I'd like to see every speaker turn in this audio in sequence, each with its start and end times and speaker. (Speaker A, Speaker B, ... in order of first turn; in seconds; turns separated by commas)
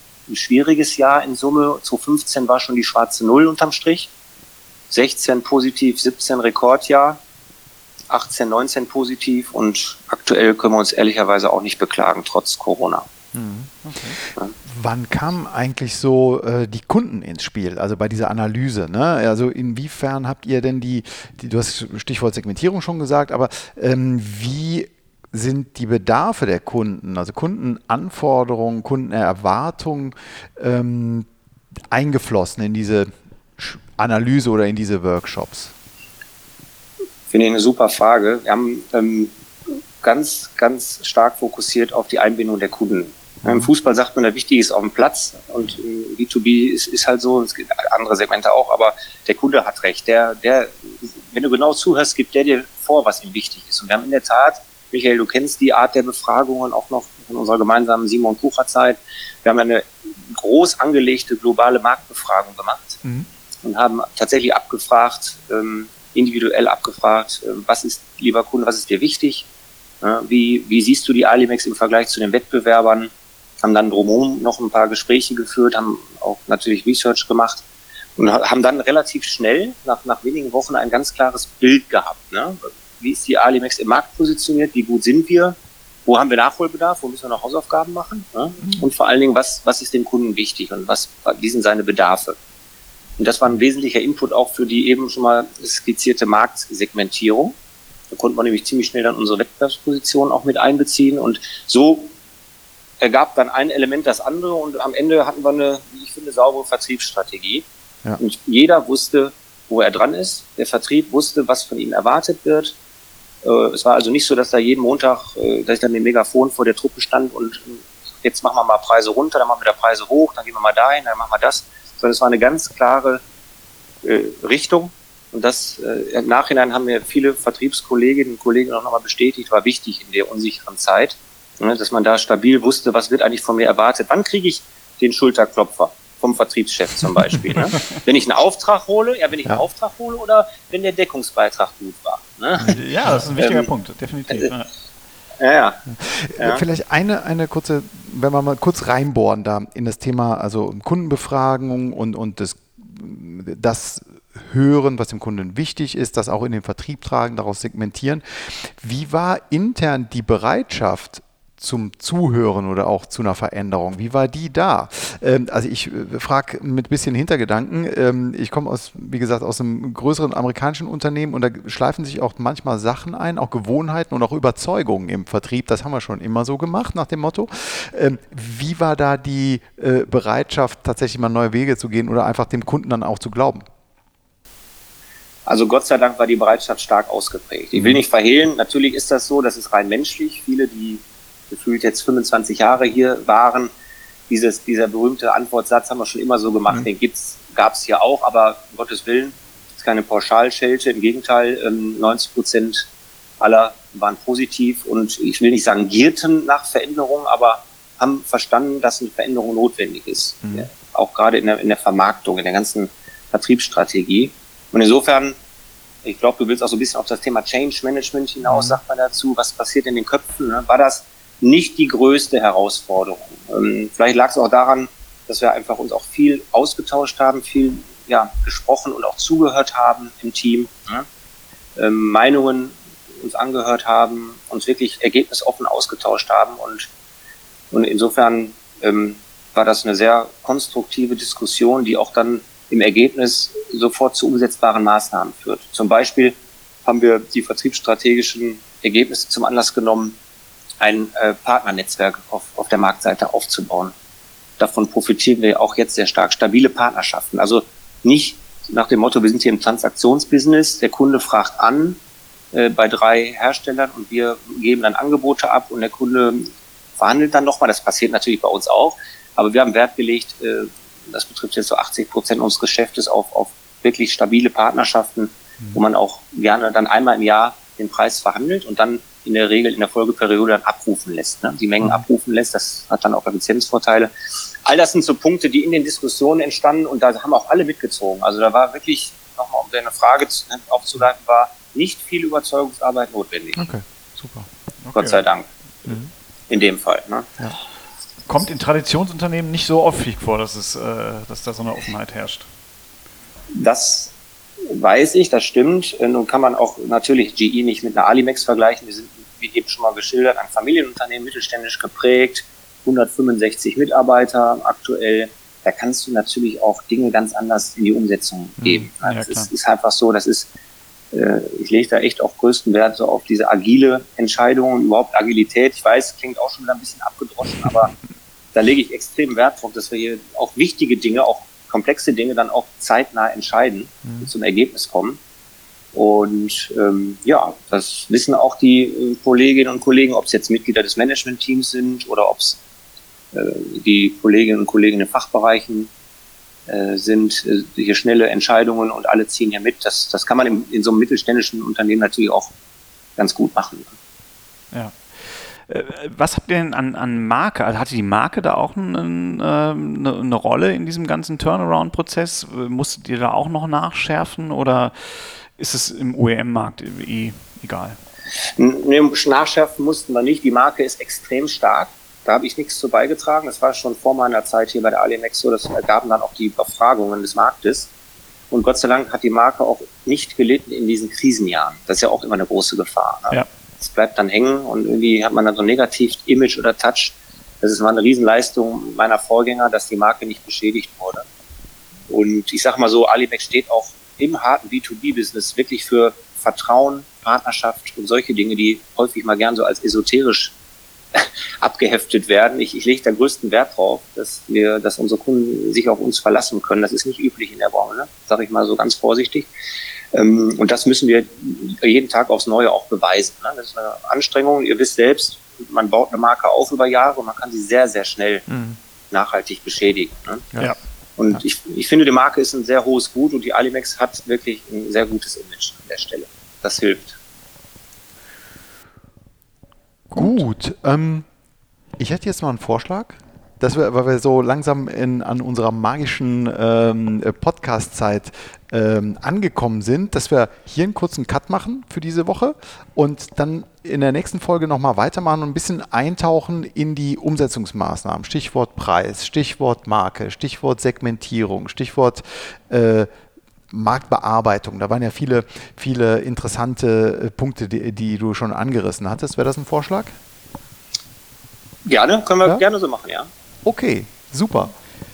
Speaker A: 0.3-4.1, Speaker A: 4.9-7.2, Speaker A: 8.1-13.1, Speaker B: 13.3-14.0, Speaker C: 13.8-14.2, Speaker B: 14.6-31.3, Speaker B: 31.9-35.7, Speaker A: 37.3-39.3, Speaker A: 40.0-63.0, Speaker A: 63.6-69.5, Speaker A: 70.0-77.6, Speaker A: 78.2-92.4, Speaker A: 93.2-97.5, Speaker A: 98.1-102.1, Speaker A: 103.0-107.7, Speaker A: 108.2-112.8, Speaker A: 113.4-123.2, Speaker A: 124.0-142.8, Speaker B: 142.6-143.2, Speaker C: 142.7-144.7, Speaker A: 143.4-143.7, Speaker A: 145.4-145.8, Speaker B: 146.0-183.7, Speaker A: 146.4-146.6, Speaker A: 185.4-193.7, Speaker A: 194.3-202.9, Speaker A: 203.4-215.4, Speaker A: 216.0-231.1, Speaker A: 231.8-236.9, Speaker A: 237.7-250.2, Speaker A: 250.8-253.9, Speaker A: 254.6-262.0, Speaker A: 262.5-284.1, Speaker A: 284.6-293.7, Speaker B: 293.6-294.5, Speaker C: 294.8-295.2, Speaker A: 294.9-296.0, Speaker A: 296.5-297.3, Speaker C: 298.3-302.5, Speaker A: 303.5-304.1, Speaker A: 304.6-320.5, Speaker C: 319.0-319.5, Speaker A: 321.1-327.9, Speaker A: 328.5-335.2, Speaker A: 335.9-342.6, Speaker A: 343.3-345.9, Speaker A: 346.7-352.5, Speaker A: 353.2-353.9, Speaker C: 354.7-368.0, Speaker A: 368.6-377.9, Speaker A: 378.5-391.2, Speaker A: 392.1-400.5, Speaker A: 401.1-409.5, Speaker A: 410.1-418.5, Speaker B: 418.5-418.8, Speaker A: 419.1-420.5, Speaker A: 421.2-427.2, Speaker C: 430.1-430.4, Speaker B: 430.1-431.2, Speaker B: 432.0-453.1, Speaker B: 453.7-460.1, Speaker A: 461.9-463.3, Speaker B: 463.6-464.7